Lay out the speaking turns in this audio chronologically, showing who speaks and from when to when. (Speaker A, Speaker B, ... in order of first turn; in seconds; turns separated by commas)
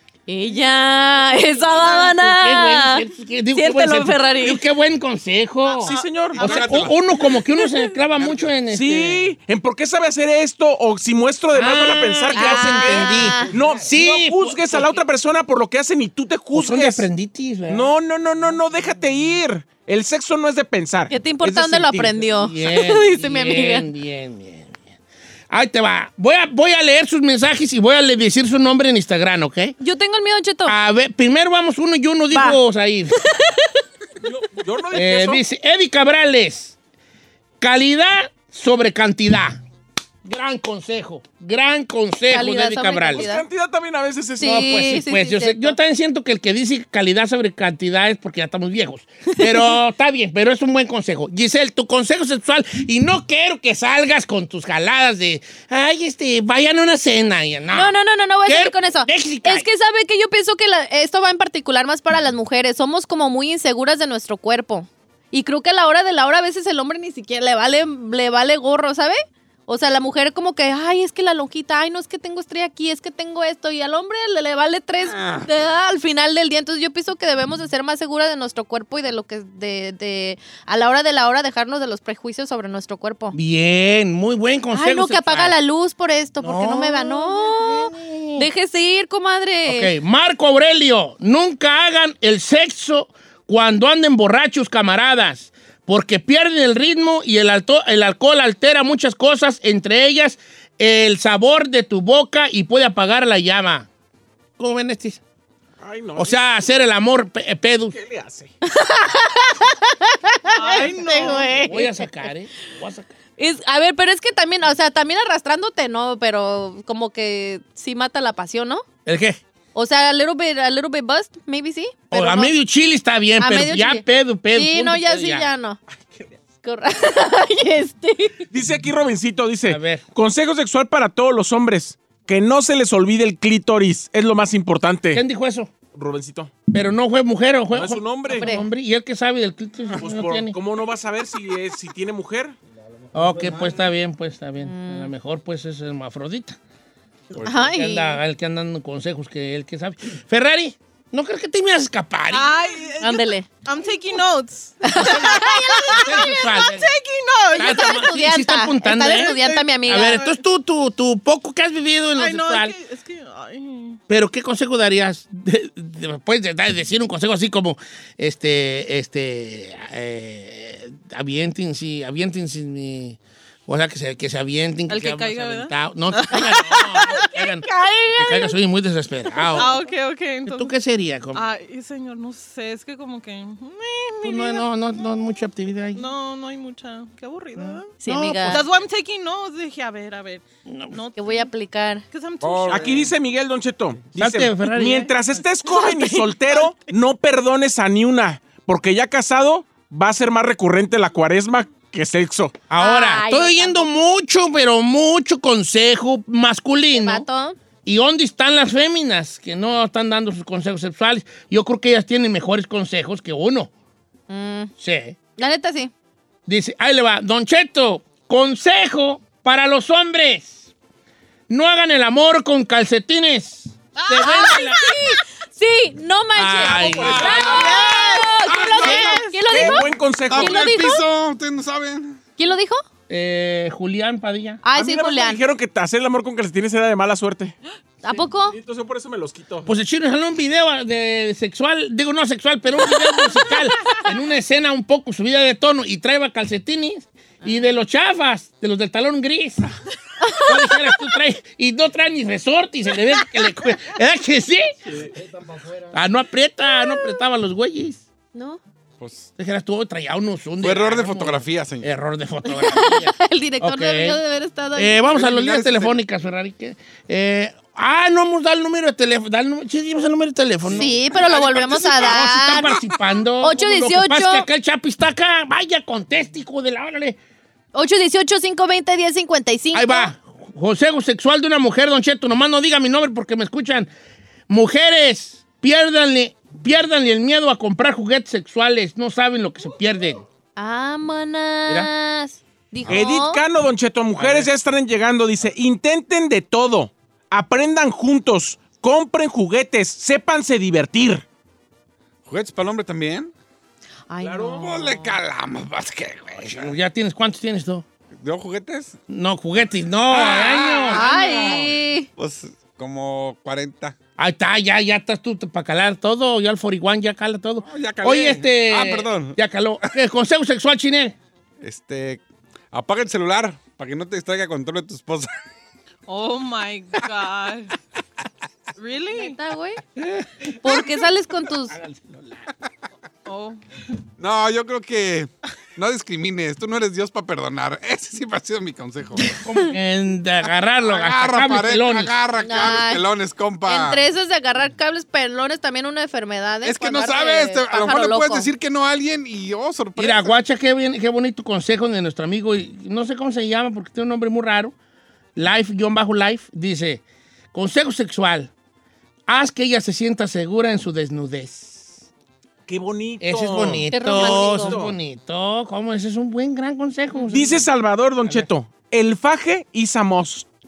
Speaker A: 0.3-4.6, Speaker B: 1.8-9.3, Speaker C: 5.7-6.9, Speaker D: 5.9-7.0, Speaker D: 8.2-8.5, Speaker C: 8.7-17.1, Speaker B: 11.5-15.0, Speaker A: 12.3-13.5, Speaker B: 16.5-17.9, Speaker C: 17.7-22.3, Speaker A: 21.1-23.9, Speaker B: 22.4-24.8, Speaker B: 25.5-29.8, Speaker A: 29.8-30.8, Speaker B: 30.7-33.2, Speaker A: 32.3-32.6, Speaker A: 33.2-33.8, Speaker C: 34.2-35.4, Speaker B: 34.9-36.8, Speaker B: 37.6-39.6, Speaker B: 40.2-43.3, Speaker A: 42.3-43.4, Speaker C: 43.1-44.6, Speaker A: 44.4-45.8, Speaker B: 44.4-59.7, Speaker A: 57.7-83.4, Speaker D: 75.0-75.5, Speaker B: 83.3-85.5, Speaker A: 84.7-89.9, Speaker B: 86.4-88.5, Speaker B: 89.7-103.9, Speaker B: 104.6-105.2, Speaker C: 105.8-106.5, Speaker B: 106.2-108.0, Speaker C: 107.9-108.5, Speaker A: 108.6-111.9, Speaker E: 110.5-111.7, Speaker B: 111.6-113.1, Speaker A: 113.4-118.8, Speaker B: 119.0-119.4, Speaker A: 119.8-122.5, Speaker B: 122.1-125.5, Speaker A: 123.4-125.8, Speaker A: 126.6-128.4, Speaker C: 128.5-135.2, Speaker B: 129.7-130.0, Speaker B: 135.1-135.7, Speaker C: 135.9-136.5, Speaker B: 136.7-140.6, Speaker C: 137.7-138.5, Speaker A: 138.4-138.7, Speaker C: 140.0-142.6, Speaker B: 143.1-146.6, Speaker A: 144.6-145.1, Speaker B: 147.3-152.5, Speaker A: 147.4-148.2, Speaker E: 152.3-158.2, Speaker A: 153.0-153.5, Speaker A: 154.8-156.3, Speaker B: 155.9-156.9, Speaker A: 157.5-160.3, Speaker B: 157.6-162.8, Speaker E: 159.0-160.3, Speaker E: 162.2-164.0, Speaker B: 164.1-177.7, Speaker E: 174.9-177.5, Speaker A: 177.6-178.5, Speaker B: 178.2-179.8, Speaker E: 179.4-180.7, Speaker B: 180.5-181.4, Speaker E: 181.3-184.6, Speaker B: 184.2-186.1, Speaker E: 185.9-187.9, Speaker B: 187.6-188.7, Speaker A: 188.0-188.6, Speaker E: 188.5-191.5, Speaker B: 190.7-191.0, Speaker A: 191.2-192.0, Speaker E: 192.1-193.1, Speaker D: 192.4-193.1, Speaker C: 192.7-202.5, Speaker B: 194.2-195.1, Speaker A: 195.7-196.1, Speaker B: 202.7-207.3, Speaker A: 202.8-203.9, Speaker A: 206.9-207.6, Speaker B: 207.8-213.7, Speaker A: 214.3-214.7, Speaker B: 214.8-215.2, Speaker A: 215.4-215.9, Speaker B: 216.5-220.7, Speaker B: 221.5-224.9, Speaker E: 224.0-224.8, Speaker A: 224.2-231.0, Speaker B: 226.3-227.6, Speaker C: 226.6-227.5, Speaker D: 227.1-229.7, Speaker E: 227.2-229.6, Speaker B: 228.8-229.2, Speaker C: 229.5-230.7, Speaker D: 230.3-232.2, Speaker A: 232.4-232.8, Speaker B: 233.1-234.6, Speaker A: 234.6-235.4, Speaker C: 234.8-237.6, Speaker A: 238.0-238.6, Speaker C: 238.5-239.7, Speaker B: 239.7-249.7, Speaker A: 247.4-247.8, Speaker A: 250.2-250.6, Speaker B: 250.4-255.0, Speaker B: 255.8-258.0, Speaker A: 258.3-258.6, Speaker D: 259.0-259.3, Speaker B: 259.4-264.2, Speaker D: 260.6-261.9, Speaker A: 262.5-265.0, Speaker B: 264.8-270.9, Speaker D: 265.1-266.0, Speaker D: 270.7-272.8, Speaker A: 270.8-272.7, Speaker B: 271.5-277.2, Speaker A: 273.4-274.5, Speaker A: 277.7-280.1, Speaker B: 279.7-283.9, Speaker B: 284.5-290.2, Speaker A: 290.6-293.4, Speaker C: 292.9-301.2, Speaker B: 294.2-294.5, Speaker D: 302.3-303.3, Speaker A: 304.1-305.2, Speaker C: 304.2-304.7, Speaker D: 304.6-306.7, Speaker B: 306.4-307.9, Speaker D: 308.2-309.0, Speaker B: 309.1-311.0, Speaker D: 310.1-314.0, Speaker A: 310.8-312.1, Speaker B: 314.2-321.2, Speaker D: 317.6-319.4, Speaker D: 321.6-325.3, Speaker E: 326.1-327.7, Speaker E: 328.8-329.4, Speaker A: 329.1-329.8, Speaker B: 330.0-330.9, Speaker A: 330.6-331.8, Speaker B: 331.7-332.5, Speaker E: 333.3-333.6, Speaker D: 334.2-339.4, Speaker B: 339.3-342.1, Speaker D: 340.9-344.0, Speaker A: 342.4-343.0, Speaker A: 343.6-348.5, Speaker D: 346.6-350.4, Speaker B: 350.0-354.7, Speaker B: 355.4-358.5, Speaker B: 359.3-362.0, Speaker C: 362.7-365.0, Speaker B: 363.2-367.6, Speaker A: 363.9-364.8, Speaker C: 367.3-370.5, Speaker B: 368.2-368.5